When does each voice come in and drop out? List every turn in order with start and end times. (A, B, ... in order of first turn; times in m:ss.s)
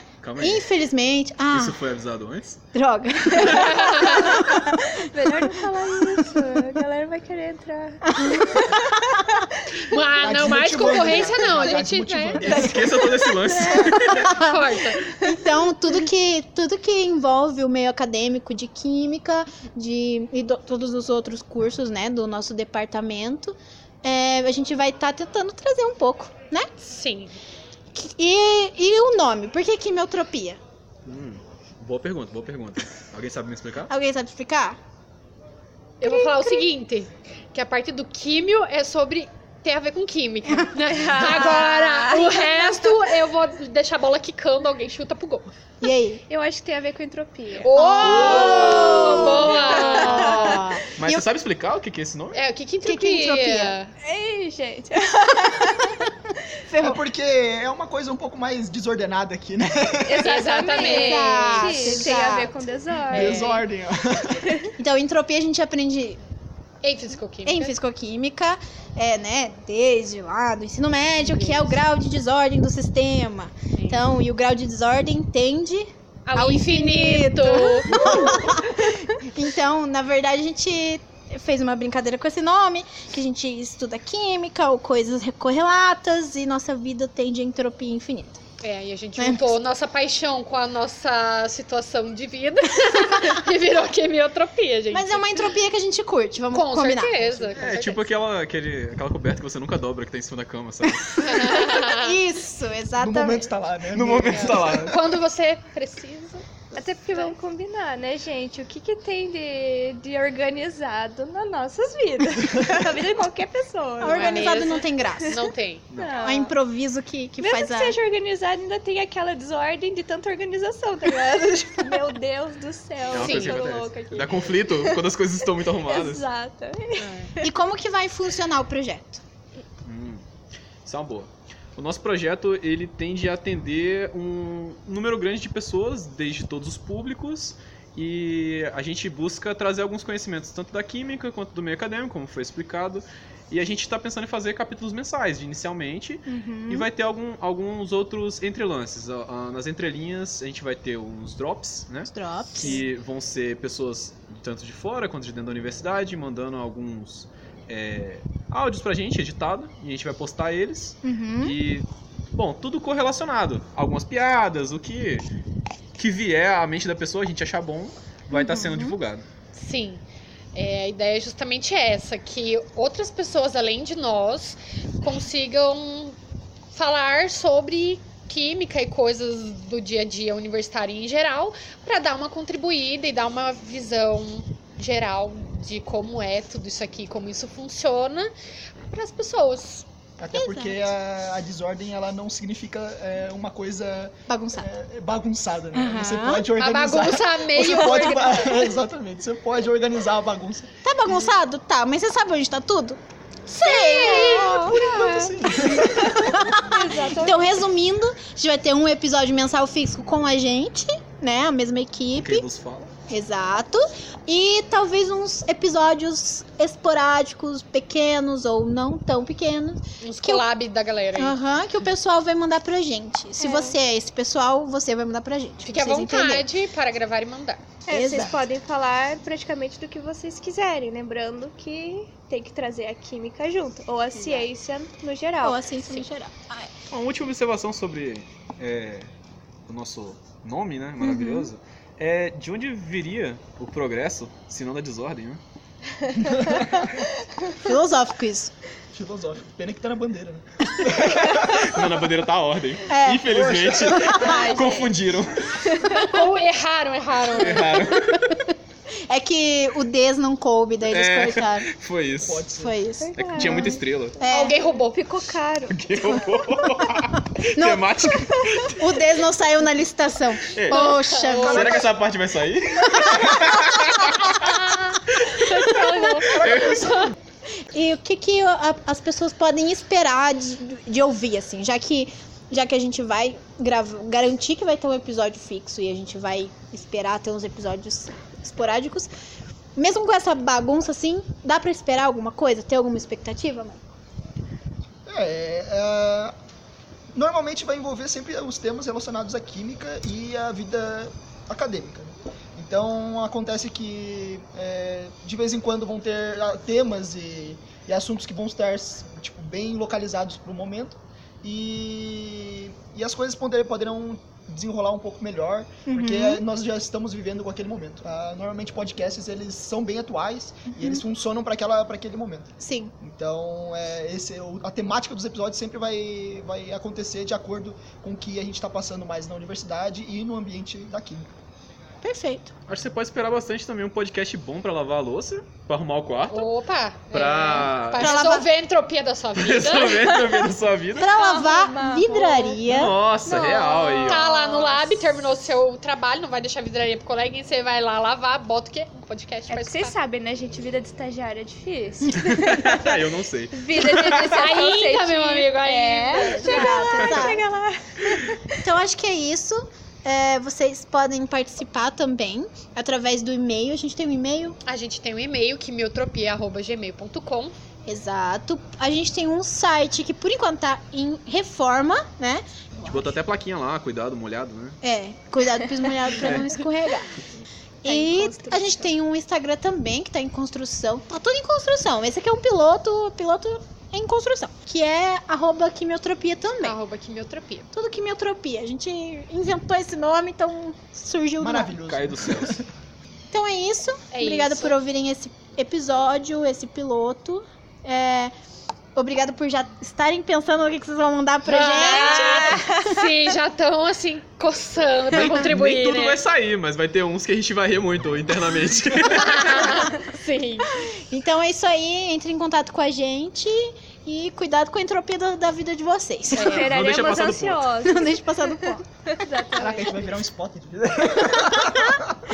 0:00.2-0:00.7 A
0:00.4-0:01.8 B
0:01.5-0:02.6 A
0:02.7-0:04.7 B
0:03.4-0:04.3 C
0:04.4-0:08.8 D
0:08.2-0:09.2 B
0:09.8-0:12.5 C
0:10.2-0:13.0 E
0:11.0-0:11.4 D
0:12.4-0:14.3 A
0:12.5-0:12.9 B
0:13.3-0:14.1 D
0:13.8-0:14.5 B
0:14.3-0:15.0 C
0:15.0-0:15.9 D
0:15.2-0:26.7 B
0:26.8-0:27.4 C
0:27.9-0:30.6 B
0:31.0-0:33.9 A
0:33.9-0:34.8 B
0:36.0-0:45.5 C
0:36.0-0:36.6 D
0:40.9-0:42.9 D
0:41.2-0:41.6 B
0:45.8-0:46.2 B
0:46.3-0:47.7 D
0:47.6-0:50.6 C
0:47.8-0:51.2 B
0:48.0-0:49.8 A
0:48.3-0:50.2 D
0:51.0-0:52.4 A
0:52.3-0:53.9 C
0:52.8-0:53.8 B
0:54.0-0:56.0 D
0:56.7-0:57.0 B
0:56.8-1:00.7 E
1:00.0-1:03.6 D
1:00.2-1:02.2 C
1:00.8-1:02.5 B
1:03.1-1:04.6 E
1:03.1-1:03.6 C
1:04.4-1:04.7 D
1:04.8-1:06.2 B
1:06.8-1:07.7 C
1:07.4-1:28.4 B
1:11.2-1:11.7 C
1:13.7-1:14.0 C
1:16.2-1:18.2 C
1:28.6-1:35.5 C
1:29.2-1:29.6 B
1:34.9-1:37.4 B
1:36.5-1:38.1 C
1:37.5-1:37.7 E
1:37.6-1:41.3 A
1:41.2-1:42.2 C
1:41.3-1:43.5 B
1:43.0-1:45.0 E
1:43.9-1:45.0 A
1:44.3-1:46.5 C
1:46.7-1:54.7 D
1:47.1-1:47.3 C
1:54.0-1:55.4 B
1:54.0-1:55.9 C
1:55.9-1:56.2 A
1:56.0-1:56.6 D
1:56.2-1:58.0 B
1:57.4-2:07.5 D
2:03.1-2:06.2 A
2:03.1-2:03.6 C
2:07.0-2:07.3 C
2:07.4-2:09.2 B
2:09.8-2:10.2 A
2:10.8-2:45.3 A
2:26.3-2:26.9 B
2:32.1-2:32.8 B
2:41.0-2:41.6 B
2:45.9-2:49.2 A
2:48.3-2:49.0 B
2:49.5-2:56.2 C
2:56.7-3:08.3 C
3:08.9-3:09.8 C
3:10.2-3:21.3 E
3:10.3-3:10.9 B
3:14.3-3:14.7 B
3:15.7-3:16.4 B
3:16.5-3:18.6 C
3:20.8-3:23.0 B
3:23.5-3:24.7 C
3:23.6-3:24.8 B
3:23.9-3:25.3 D
3:24.4-3:26.4 E
3:25.4-3:26.5 B
3:26.5-3:27.5 D
3:27.2-3:32.4 B
3:32.1-3:32.9 A
3:33.1-3:40.4 B
3:40.0-3:41.4 C
3:41.2-3:46.5 B
3:43.4-3:43.8 D
3:45.6-3:47.6 C
3:47.8-3:55.6 D
3:47.9-3:48.4 B
3:54.1-3:54.5 B
3:55.4-3:56.7 B
3:56.9-3:59.1 A
3:59.7-4:05.4 A
4:01.0-4:01.5 B
4:06.2-4:06.9 E
4:07.6-4:08.5 B
4:08.9-4:11.6 E
4:11.0-4:15.7 A
4:12.9-4:13.4 B
4:13.3-4:14.3 E
4:13.9-4:14.5 B
4:14.2-4:15.0 D
4:15.8-4:17.6 C
4:17.3-4:18.3 A
4:17.7-4:18.5 B
4:19.1-4:21.7 B
4:20.9-4:22.4 A
4:22.2-4:22.8 E
4:22.6-4:24.6 B
4:23.0-4:26.1 D
4:23.1-4:24.2 A
4:24.3-4:25.0 C
4:25.7-4:29.0 A
4:27.5-4:31.8 B
4:30.5-4:37.1 A
4:30.7-4:31.8 C
4:31.3-4:31.8 E
4:32.9-4:33.9 B
4:34.1-4:37.1 C
4:36.3-4:36.8 E
4:37.7-4:49.1 B
4:49.8-4:53.8 B
4:55.1-4:56.3 E
4:57.1-5:22.5 E
5:15.8-5:16.4 B
5:20.7-5:21.0 B
5:22.6-5:22.9 B
5:23.0-5:31.3 E
5:32.0-5:32.5 B
5:32.7-5:36.5 A
5:36.3-5:40.1 C
5:37.1-5:38.1 A
5:38.0-5:38.5 B
5:39.3-5:41.1 A
5:40.0-5:40.5 D
5:40.9-5:43.0 B
5:41.0-5:42.6 D
5:42.6-5:44.3 A
5:43.2-5:45.1 D
5:44.0-5:49.9 C
5:49.5-5:52.7 D
5:52.2-5:54.2 A
5:53.5-5:58.6 D
5:54.1-5:57.0 C
5:56.4-5:57.4 B
5:57.0-5:57.3 A
5:58.6-6:04.6 B
6:04.6-6:07.5 C
6:07.8-6:13.1 B
6:12.7-6:14.8 A
6:14.8-6:17.1 B
6:16.2-6:16.6 A
6:17.8-6:18.9 D
6:17.8-6:26.8 B
6:26.6-6:27.7 C
6:27.7-6:31.7 B
6:31.4-6:32.6 E
6:31.8-6:32.6 A
6:33.3-6:38.3 B
6:34.1-6:34.8 C
6:38.9-6:43.1 B
6:41.4-6:46.2 C
6:45.1-6:49.9 A
6:49.1-6:50.7 C
6:51.1-6:56.6 B
6:56.3-6:56.7 C
6:56.4-7:00.1 D
6:56.6-6:57.7 A
6:57.8-6:58.8 B
6:59.5-7:02.0 E